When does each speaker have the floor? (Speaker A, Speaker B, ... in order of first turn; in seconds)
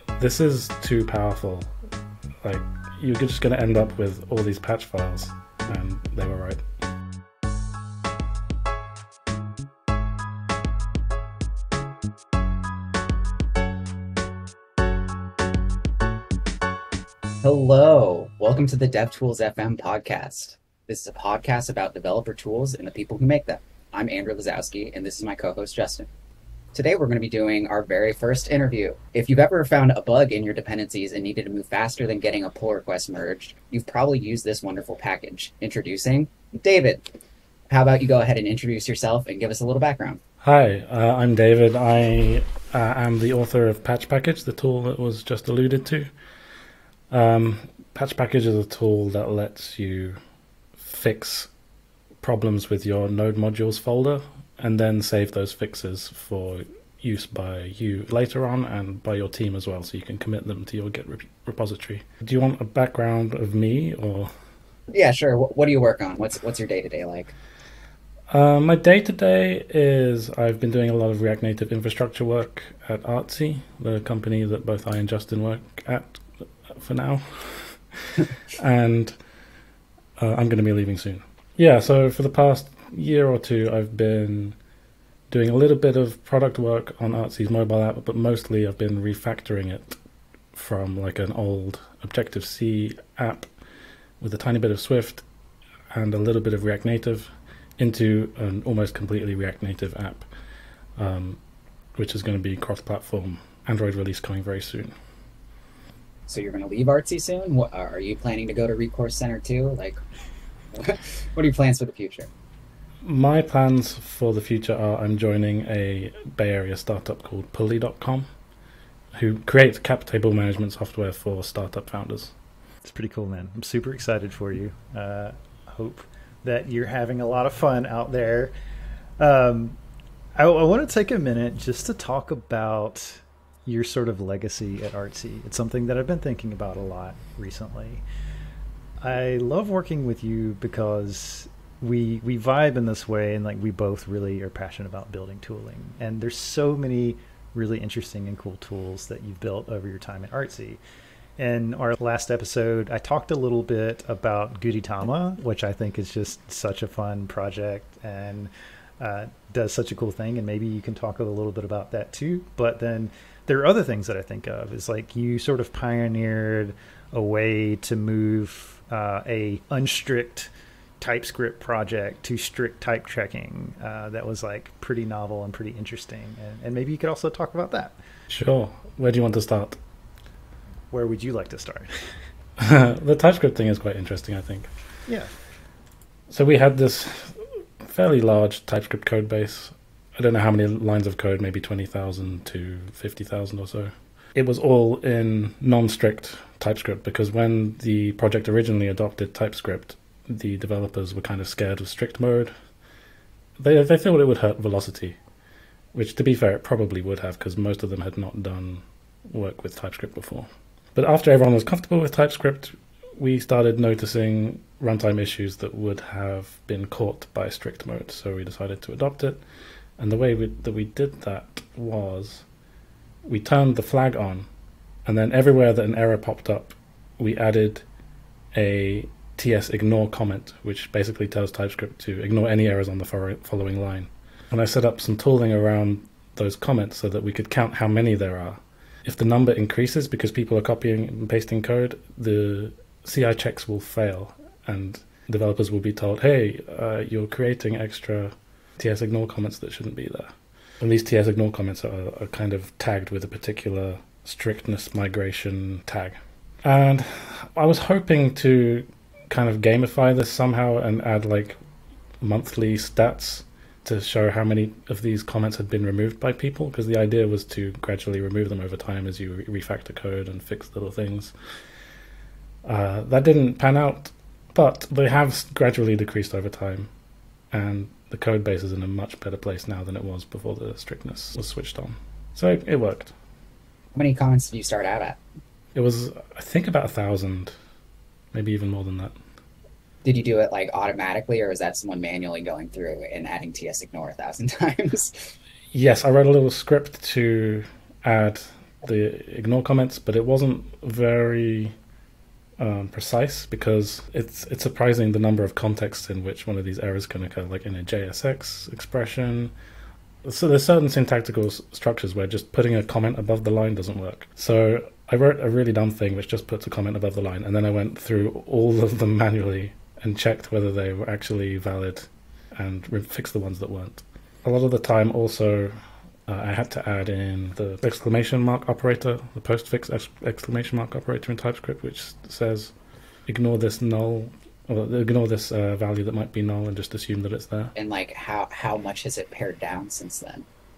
Speaker A: 0.2-1.7, 2.4-6.6, 40.4-46.1, 47.1-50.2, 50.8-51.5, 52.2-64.3, 68.3-79.2, 80.2-84.6, 85.3-90.0, 90.5-93.5, 94.2-95.2, 95.9-100.2, 101.0-101.4, 102.0-104.9, 113.0-118.3, 119.1-122.3, 178.3-179.8, 182.6-184.7, 186.3-202.5, 203.6-205.2, 205.9-219.4, 220.0-222.4, 223.2-224.5, 225.1-227.8, 228.5-261.6, 262.2-271.3, 272.6-276.9, 277.5-283.1, 285.7-287.5, 288.3-289.1, 295.7-301.7, 302.6-309.5, 310.2-325.7, 326.3-332.7, 333.3-337.7
Speaker B: 17.4-26.1, 26.7-37.1, 37.7-40.2, 64.9-67.3, 106.3-110.0, 110.7-112.3, 283.9-285.2, 290.0-295.3, 337.7-340.4
Speaker C: 122.8-128.5, 129.2-129.8, 130.3-138.0, 139.0-150.8, 151.4-178.0, 180.9-181.9